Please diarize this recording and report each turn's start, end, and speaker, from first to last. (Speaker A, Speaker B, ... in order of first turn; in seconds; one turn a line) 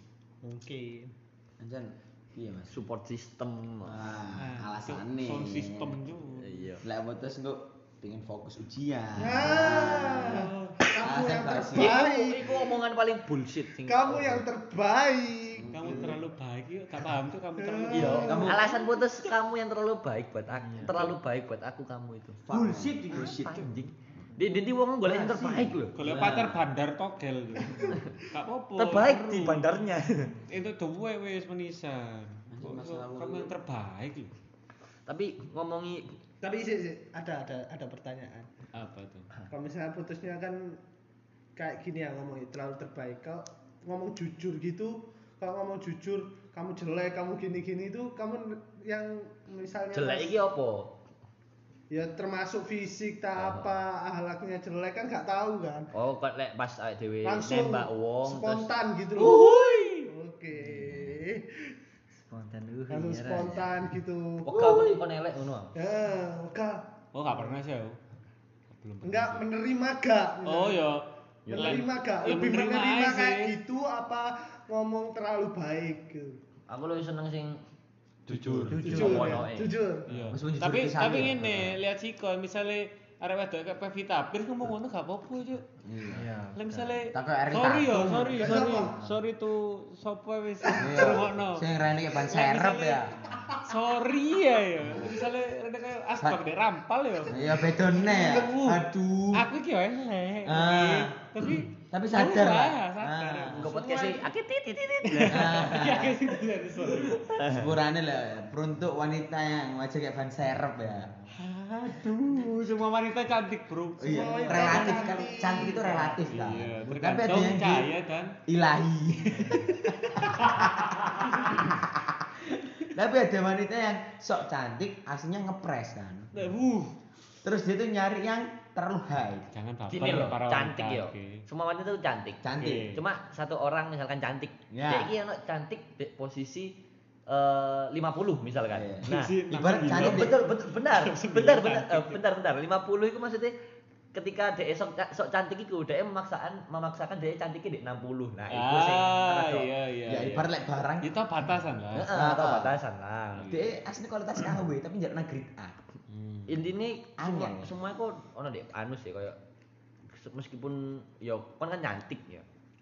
Speaker A: 0.4-1.1
Speaker B: 1.6-2.8
Speaker C: 2.7-4.1
Speaker B: 3.9-6.0
Speaker D: 4.4-6.8
Speaker C: 6.4-6.8
Speaker B: 6.8-12.1
Speaker A: 9.2-12.8
Speaker D: 10.1-10.9
Speaker C: 11.7-14.4
Speaker A: 13.8-16.1
Speaker B: 15.5-16.2
Speaker D: 15.7-18.5
Speaker A: 17.6-19.0
Speaker C: 17.9-22.4
Speaker B: 18.2-18.7
Speaker D: 20.8-21.1
Speaker B: 22.4-23.8
Speaker E: 22.5-23.6
Speaker C: 23.1-25.9
Speaker E: 25.0-25.7
Speaker B: 25.4-26.6
Speaker D: 25.9-29.9
Speaker A: 27.7-28.0
Speaker C: 28.8-30.4
Speaker D: 30.4-34.3
Speaker B: 32.5-33.5
Speaker C: 35.1-36.2
Speaker A: 36.4-38.5
Speaker D: 38.7-39.3
Speaker A: 39.5-40.8
Speaker A: 41.6-50.4
Speaker C: 49.9-51.0
Speaker A: 51.9-55.9
Speaker C: 53.4-53.8
Speaker C: 55.9-58.7
Speaker A: 57.2-61.8
Speaker D: 59.2-60.1
Speaker E: 60.7-61.1
Speaker E: 62.2-63.8
Speaker A: 62.9-65.0
Speaker C: 64.5-65.7
Speaker A: 65.8-67.6
Speaker D: 67.1-68.0
Speaker D: 68.7-69.5
Speaker A: 69.0-76.4
Speaker D: 70.5-73.5
Speaker C: 71.5-71.9
Speaker C: 76.7-77.6
Speaker C: 78.3-79.8
Speaker B: 78.3-79.1
Speaker D: 78.7-79.3
Speaker E: 78.7-79.4
Speaker A: 78.9-80.1
Speaker D: 80.1-85.7
Speaker B: 80.3-81.8
Speaker B: 85.8-88.8
Speaker E: 86.1-86.6
Speaker D: 86.5-104.3
Speaker A: 88.2-89.0
Speaker B: 90.8-93.3
Speaker B: 97.3-99.5
Speaker B: 100.5-101.2
Speaker B: 101.9-103.8
Speaker C: 103.5-106.1
Speaker D: 105.0-107.5
Speaker B: 105.2-106.2
Speaker C: 107.2-107.7
Speaker B: 107.5-111.1
Speaker D: 111.3-118.4
Speaker B: 111.9-112.5
Speaker B: 114.0-117.9
Speaker A: 114.0-116.0
Speaker B: 118.5-126.5
Speaker D: 119.4-121.8
Speaker D: 126.3-127.0
Speaker B: 127.4-129.5
Speaker D: 129.5-131.4
Speaker C: 129.9-143.5
Speaker B: 132.4-133.0
Speaker D: 132.6-133.0
Speaker B: 134.7-135.1
Speaker B: 138.7-140.4
Speaker D: 139.1-142.2
Speaker C: 144.1-149.7
Speaker D: 148.5-152.1
Speaker B: 150.1-151.1
Speaker C: 151.9-153.6
Speaker B: 152.1-152.8
Speaker D: 153.4-153.7
Speaker B: 153.4-155.8
Speaker D: 156.1-156.7
Speaker C: 156.5-159.4
Speaker B: 157.2-157.7
Speaker C: 160.1-162.5